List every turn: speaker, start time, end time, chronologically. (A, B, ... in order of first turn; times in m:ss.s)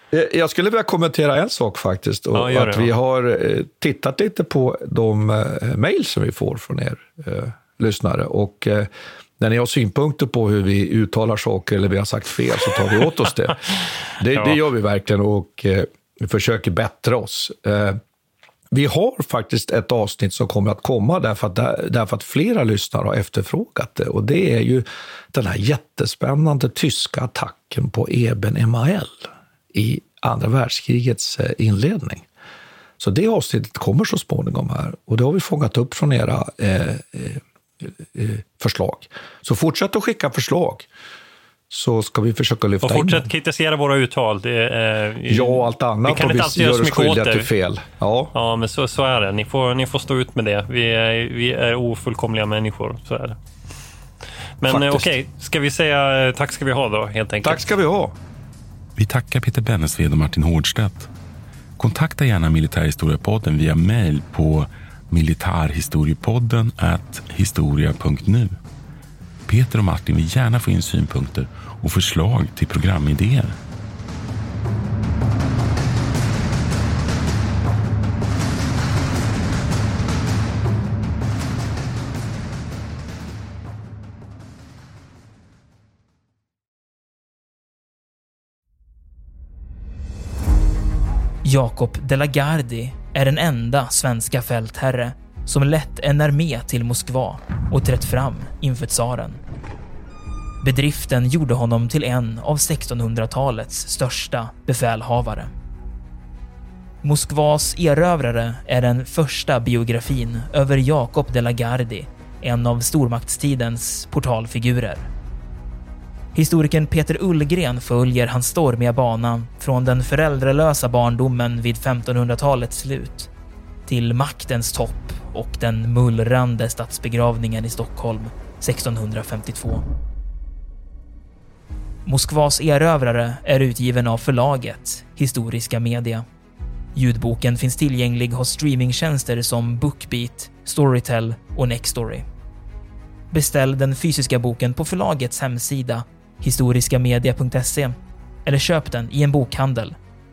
0:00.1-0:18.0 A
0:02.3-0:02.9 B
0:14.3-0:14.6 B
0:18.7-0:32.3 A
0:33.0-0:40.9 A
0:41.7-0:43.3 A
0:42.8-0:47.5 B
0:45.2-0:48.3 A
0:48.3-0:53.4 B
0:54.6-0:57.7 B
0:54.6-0:55.1 A
0:57.4-0:58.2 A
0:59.0-1:01.1 C
1:01.8-1:08.6 C
1:09.5-1:13.6 C
1:31.4-1:39.4 D
1:40.6-1:45.5 D
1:47.0-1:55.1 D
1:56.3-2:03.3 D
2:03.9-2:09.8 D
2:12.0-2:16.2 D
2:16.9-2:22.2 D
2:23.3-2:30.0 D